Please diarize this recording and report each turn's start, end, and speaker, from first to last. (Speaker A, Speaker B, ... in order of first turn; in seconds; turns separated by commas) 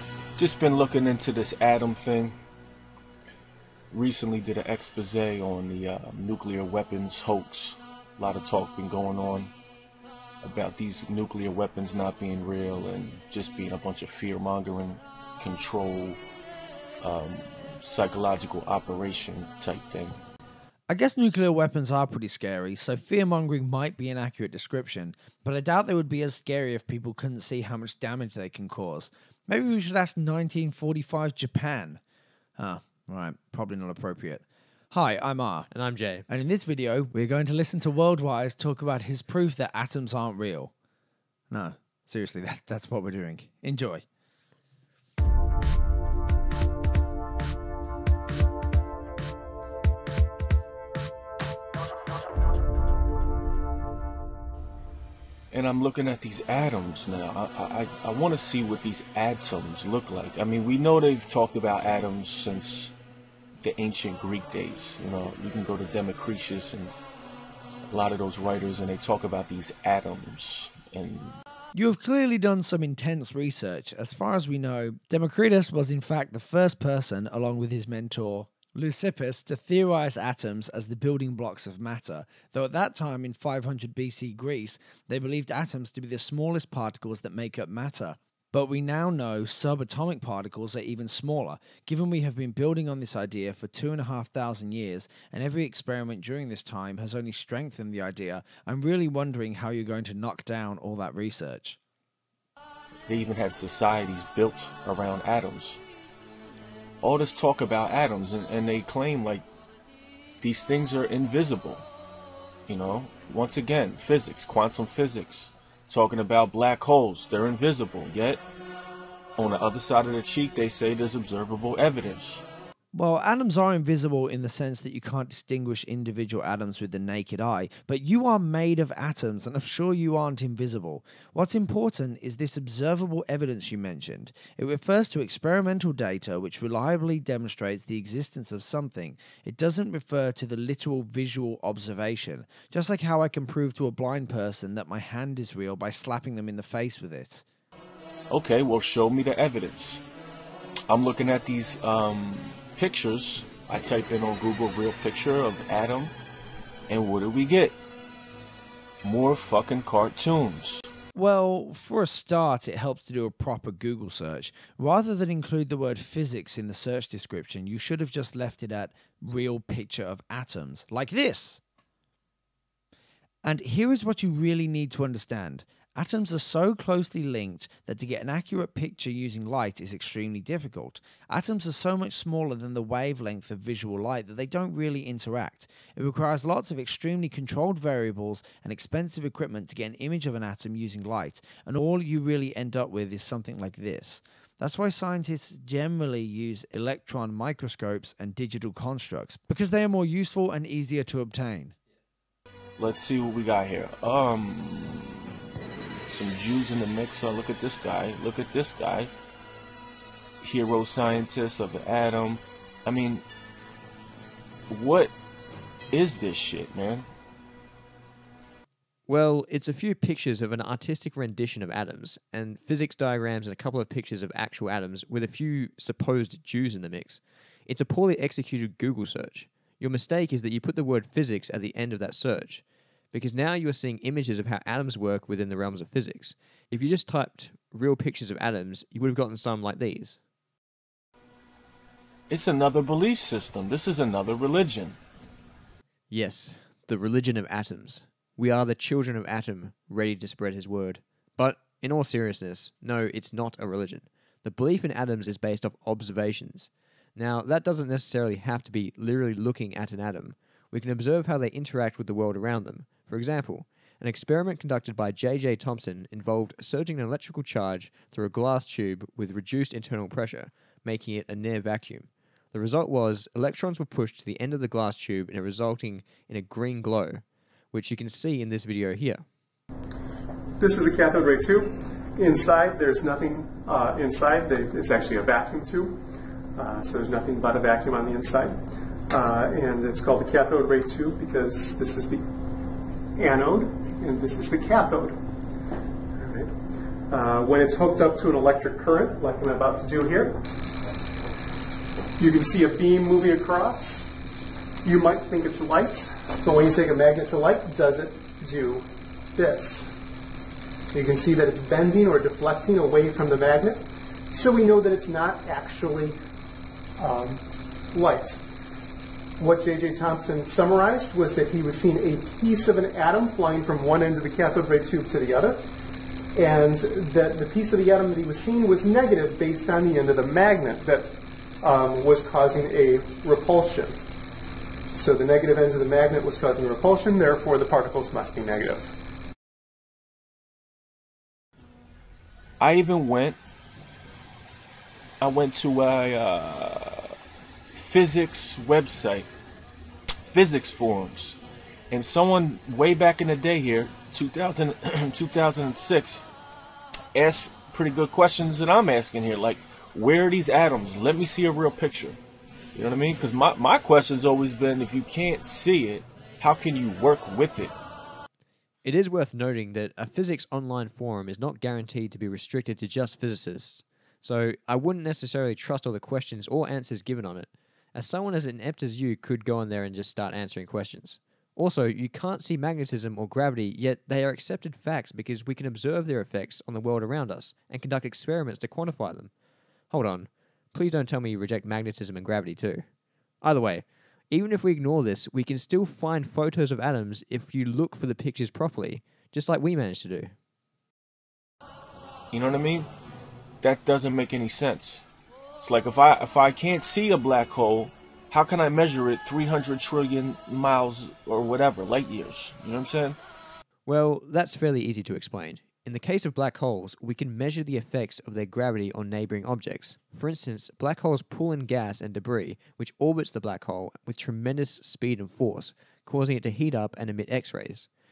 Speaker A: 0.4-2.4, Speaker A: 3.9-9.5, Speaker A: 10.4-16.2, Speaker A: 17.0-20.2, Speaker B: 20.9-32.0, Speaker B: 32.6-35.7, Speaker C: 35.7-36.2, Speaker B: 36.3-40.7, Speaker B: 41.5-44.0, Speaker A: 55.5-62.9, Speaker A: 63.6-66.9, Speaker A: 67.9-71.4, Speaker B: 71.7-101.8, Speaker A: 103.1-105.8, Speaker A: 107.0-109.4, Speaker A: 110.4-111.9, Speaker A: 112.7-118.4, Speaker A: 119.4-122.4, Speaker B: 122.9-147.4, Speaker A: 148.3-150.0, Speaker A: 150.9-156.1, Speaker A: 156.9-157.8, Speaker A: 159.0-160.9, Speaker B: 161.1-171.6, Speaker B: 173.4-201.7, Speaker A: 202.8-205.3, Speaker A: 206.1-209.1, Speaker A: 210.4-213.2, Speaker A: 214.7-215.1, Speaker A: 215.9-217.1, Speaker C: 219.1-240.2, Speaker A: 242.3-245.0, Speaker C: 246.1-279.2, Speaker D: 280.6-286.0, Speaker D: 286.5-288.6, Speaker D: 289.1-292.2, Speaker D: 293.2-295.2, Speaker D: 296.1-296.5, Speaker D: 297.1-300.5, Speaker D: 302.2-304.1, Speaker D: 304.8-309.9, Speaker D: 310.9-316.1, Speaker D: 317.0-318.4, Speaker D: 319.4-325.6, Speaker D: 326.4-334.0, Speaker D: 334.9-338.9, Speaker A: 342.6-343.4, Speaker A: 345.2-347.1, Speaker A: 347.7-349.3, Speaker A: 350.2-351.4, Speaker A: 351.9-356.2, Speaker A: 357.1-362.2, Speaker A: 362.7-367.7, Speaker C: 368.8-389.3, Speaker C: 389.9-392.8, Speaker C: 393.4-400.3, Speaker A: 402.3-402.9, Speaker A: 403.6-405.0, Speaker A: 405.6-413.2, Speaker C: 413.9-427.9